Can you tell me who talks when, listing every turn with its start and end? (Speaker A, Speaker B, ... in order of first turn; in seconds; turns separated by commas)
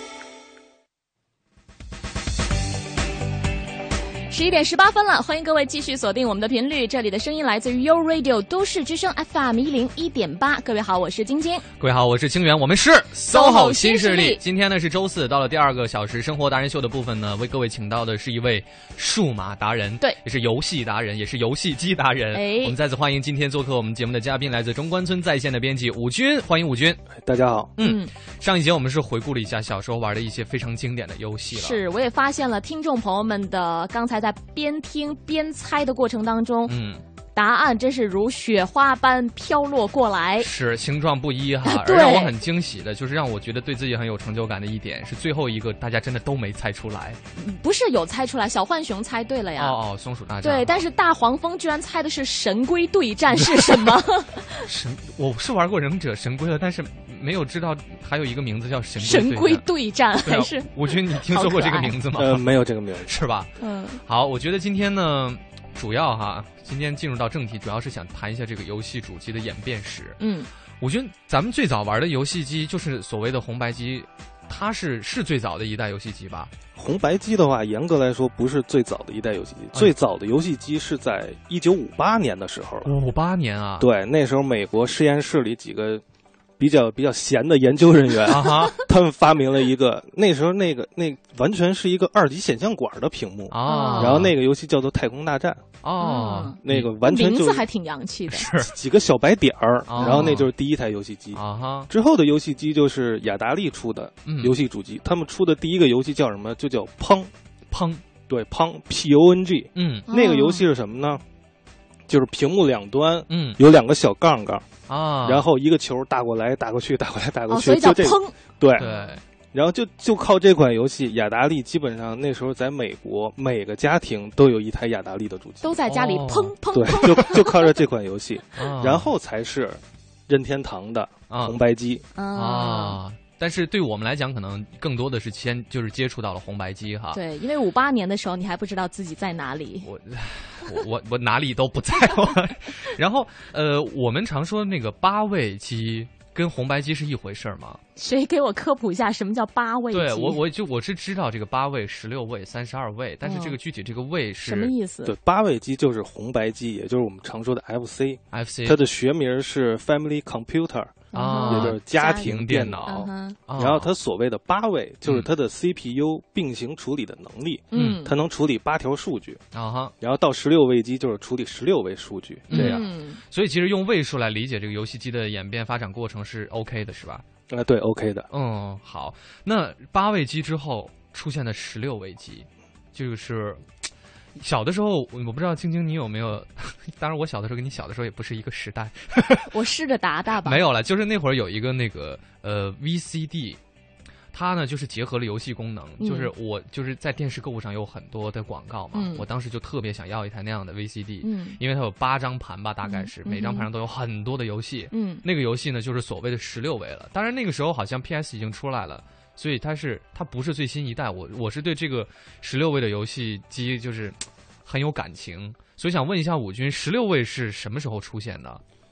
Speaker A: 4.3-11.6, Speaker B: 11.8-27.0, Speaker A: 13.3-14.4, Speaker A: 22.3-22.8, Speaker C: 27.1-27.7, Speaker B: 27.8-31.8, Speaker A: 27.8-28.1, Speaker A: 31.5-36.7, Speaker B: 36.7-37.0, Speaker A: 37.3-40.5, Speaker B: 40.4-47.2, Speaker A: 41.6-42.3, Speaker A: 47.4-49.8, Speaker B: 49.6-50.8, Speaker A: 50.4-54.6, Speaker B: 53.4-54.0, Speaker B: 54.6-59.6, Speaker A: 59.0-61.9, Speaker B: 60.2-62.5, Speaker C: 62.1-63.1, Speaker B: 63.0-63.5, Speaker A: 63.6-64.0, Speaker B: 64.0-70.2, Speaker A: 70.2-70.5, Speaker B: 70.8-76.5, Speaker C: 76.8-82.9, Speaker B: 82.8-83.9, Speaker C: 83.8-86.0, Speaker C: 86.6-95.6, Speaker B: 88.3-88.8, Speaker B: 93.5-94.3, Speaker A: 93.7-94.2, Speaker B: 95.8-96.9, Speaker A: 96.0-98.5, Speaker C: 96.6-97.6, Speaker B: 98.3-98.7, Speaker C: 98.6-107.3, Speaker B: 99.9-100.5, Speaker A: 100.0-100.4, Speaker B: 101.3-101.9, Speaker B: 104.2-104.5, Speaker B: 107.7-108.0, Speaker C: 108.3-111.2, Speaker B: 109.8-110.1, Speaker A: 110.1-110.7, Speaker C: 112.1-114.7, Speaker B: 113.3-113.6, Speaker B: 114.9-115.5, Speaker C: 115.2-118.9, Speaker A: 117.5-118.3, Speaker B: 118.8-119.2, Speaker C: 119.5-125.7, Speaker A: 125.6-127.6, Speaker B: 125.9-127.1, Speaker C: 126.7-132.0, Speaker B: 128.6-129.1, Speaker B: 131.3-131.6, Speaker A: 132.1-133.0, Speaker B: 132.3-137.2, Speaker A: 137.1-139.9, Speaker B: 139.8-147.8, Speaker A: 148.0-150.4, Speaker B: 149.9-154.7, Speaker A: 153.2-153.6, Speaker A: 154.4-155.1, Speaker C: 155.0-169.4, Speaker B: 158.3-158.8, Speaker A: 161.1-162.3, Speaker B: 161.1-163.9, Speaker A: 162.8-163.4, Speaker A: 167.7-168.1, Speaker B: 167.7-168.0, Speaker B: 169.5-169.9, Speaker C: 170.0-172.8, Speaker B: 172.5-177.2, Speaker A: 172.5-173.2, Speaker C: 177.5-178.3, Speaker B: 178.3-183.6, Speaker B: 184.4-189.5, Speaker A: 189.5-190.6, Speaker B: 190.4-193.6, Speaker B: 194.3-218.6, Speaker A: 196.0-196.3, Speaker A: 198.9-199.2, Speaker A: 201.2-201.6, Speaker A: 202.8-203.7, Speaker A: 204.9-205.2